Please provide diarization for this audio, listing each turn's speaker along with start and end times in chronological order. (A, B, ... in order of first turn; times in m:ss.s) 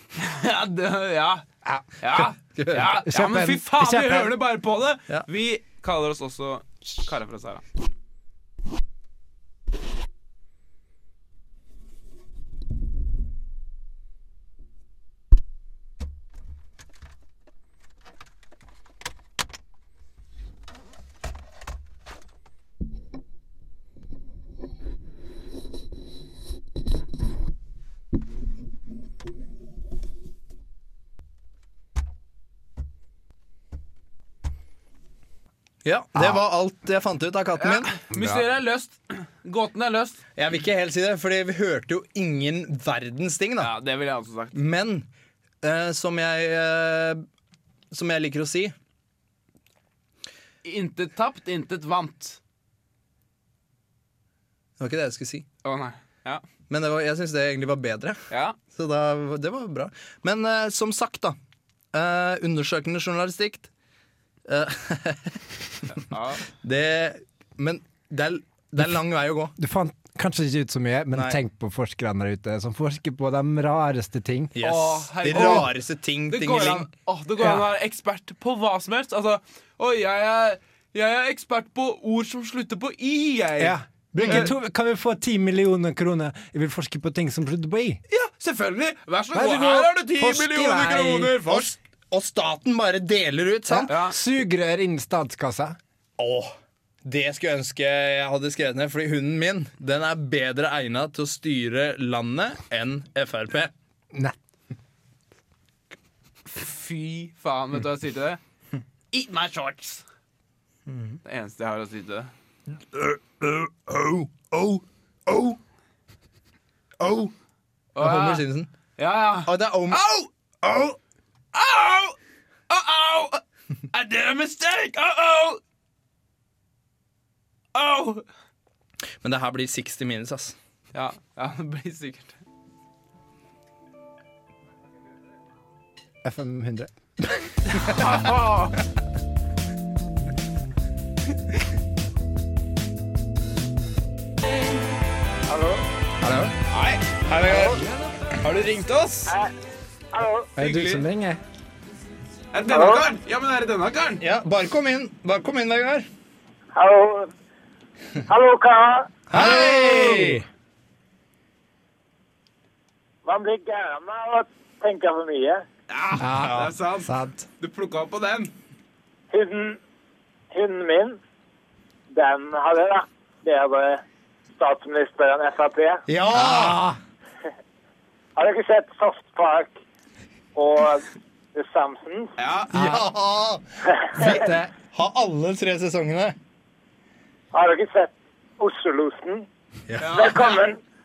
0:00.2-0:01.4 A
0:02.0-0:07.6 A
0:02.6-0:02.9 B
0:02.8-0:04.4 C
0:35.8-0:37.9 B
0:37.6-0:40.2 A
0:38.1-0:38.4 C
0:40.4-0:43.7 B
0:43.6-0:44.6 A
0:44.5-0:45.0 B
0:45.6-0:47.2 B
0:47.9-0:48.7 B
0:50.6-0:52.4 A
0:54.8-0:55.4 B
0:55.6-0:56.4 A
0:56.7-0:58.2 B
0:58.3-0:58.6 A
0:58.7-1:01.4 B
1:01.9-1:03.7 B
1:04.5-1:05.4 B
1:05.9-1:06.4 A
1:06.5-1:09.5 B
1:09.6-1:14.6 C
1:11.1-1:11.4 B
1:14.5-1:16.9 B
1:14.6-1:15.7 A
1:15.2-1:15.7 C
1:16.3-1:24.5 A
1:23.6-1:28.0 C
1:24.2-1:24.5 B
1:28.1-1:31.7 A
1:29.3-1:31.4 C
1:31.4-1:34.0 B
1:33.7-1:35.8 C
1:33.9-1:34.2 A
1:36.2-1:36.5 B
1:37.0-1:43.7 B
1:46.5-1:48.4 A
1:49.1-1:50.0 A
1:50.9-1:51.2 B
1:51.2-1:52.3 A
1:52.9-1:55.6 B
1:57.0-1:57.3 B
1:57.9-1:58.4 A
1:58.0-1:58.7 B
1:59.0-2:00.3 A
1:59.4-2:01.0 B
2:01.5-2:02.2 A
2:02.7-2:05.6 A
2:07.7-2:08.2 A
2:09.2-2:10.6 B
2:10.9-2:12.4 A
2:16.2-2:17.5 C
2:17.7-2:18.8 A
2:25.5-2:25.8 D
2:26.2-2:26.5 B
2:26.7-2:27.7 A
2:27.3-2:27.8 B
2:28.4-2:29.3 A
2:29.3-2:29.5 D
2:30.1-2:30.5 D
2:30.6-2:31.4 C
2:30.6-2:31.0 A
2:32.5-2:34.2 A
2:32.7-2:33.0 D
2:34.2-2:36.1 B
2:36.7-2:37.3 D
2:38.3-2:39.1 D
2:39.3-2:40.4 B
2:39.3-2:40.4 A
2:39.4-2:40.4 C
2:43.2-2:45.6 D
2:45.9-2:48.5 A
2:46.2-2:47.4 C
2:49.3-2:49.8 D
2:50.5-2:51.2 D
2:52.1-2:54.0 D
2:54.6-2:56.0 D
2:56.1-2:56.9 B
2:56.4-2:56.8 C
2:56.4-2:56.8 A
2:58.4-2:59.8 D
3:00.5-3:02.3 D
3:02.4-3:02.7 A
3:02.7-3:03.0 C
3:02.7-3:06.4 B
3:03.9-3:04.3 D
3:07.5-3:09.5 D
3:09.9-3:10.3 B
3:10.0-3:10.6 A
3:10.1-3:10.8 D